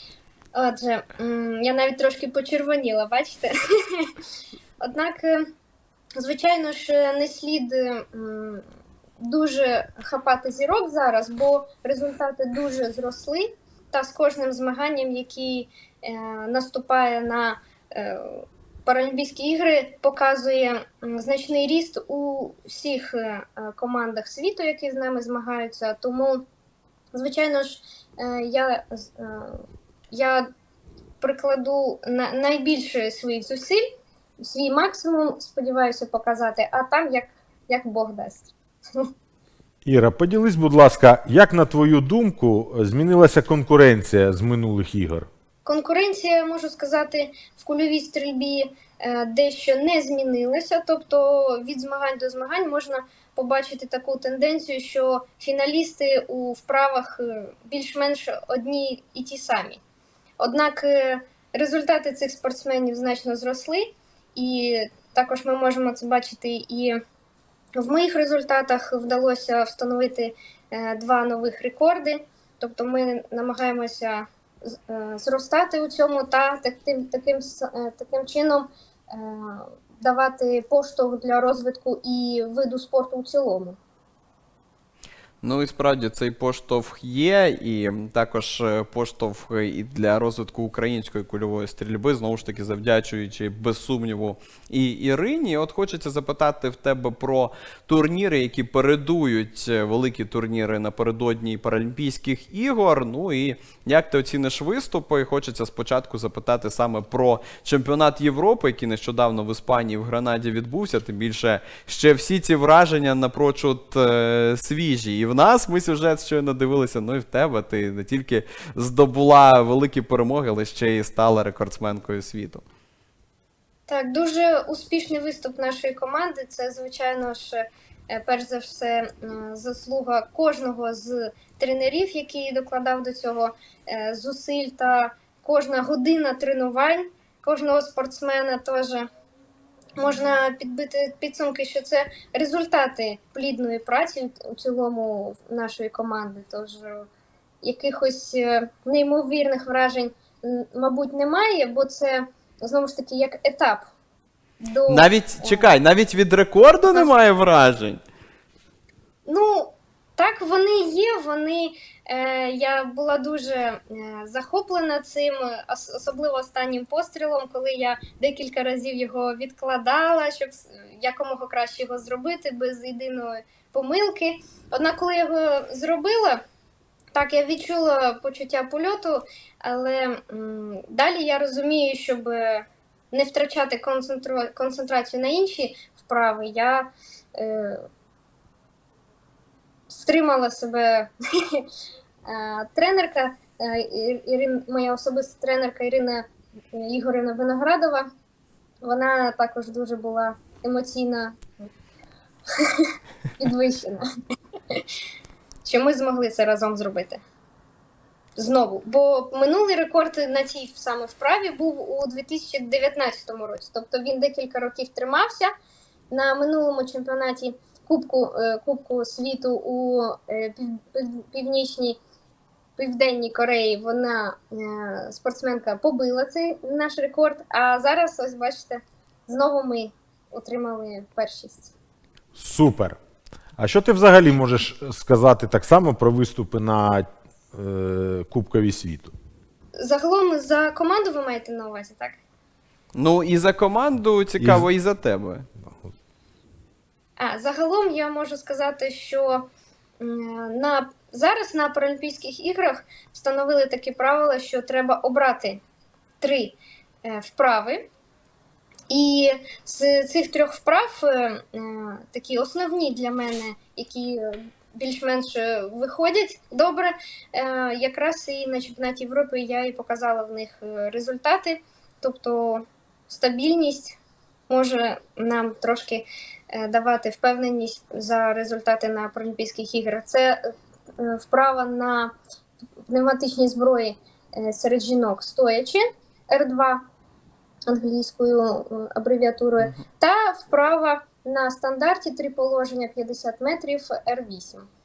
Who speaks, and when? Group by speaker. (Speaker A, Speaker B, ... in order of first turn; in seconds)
Speaker A: 0.6-4.1, 4.8-5.5, 6.2-8.6, 9.2-26.5, 27.1-30.5, 31.2-33.8, 34.4-39.1, 45.7-59.8, 60.4-67.0, 67.8-83.8, 123.9-139.1, 140.0-147.1, 147.6-153.9, 154.6-155.7, 159.3-176.4, 177.1-187.9, 189.9-191.7, 192.3-198.1, 198.8-201.7, 202.5-204.0, 205.7-207.2, 208.4-215.5, 216.1-222.0, 222.8-231.7, 239.8-242.2, 247.2-249.5, 250.0-255.6, 256.2-257.9, 258.9-274.0, 274.5-282.1, 282.9-286.8, 287.7-294.7
Speaker B: 39.9-45.3, 232.3-233.0, 233.6-239.1
Speaker C: 85.4-122.6, 154.9-158.0, 242.9-245.5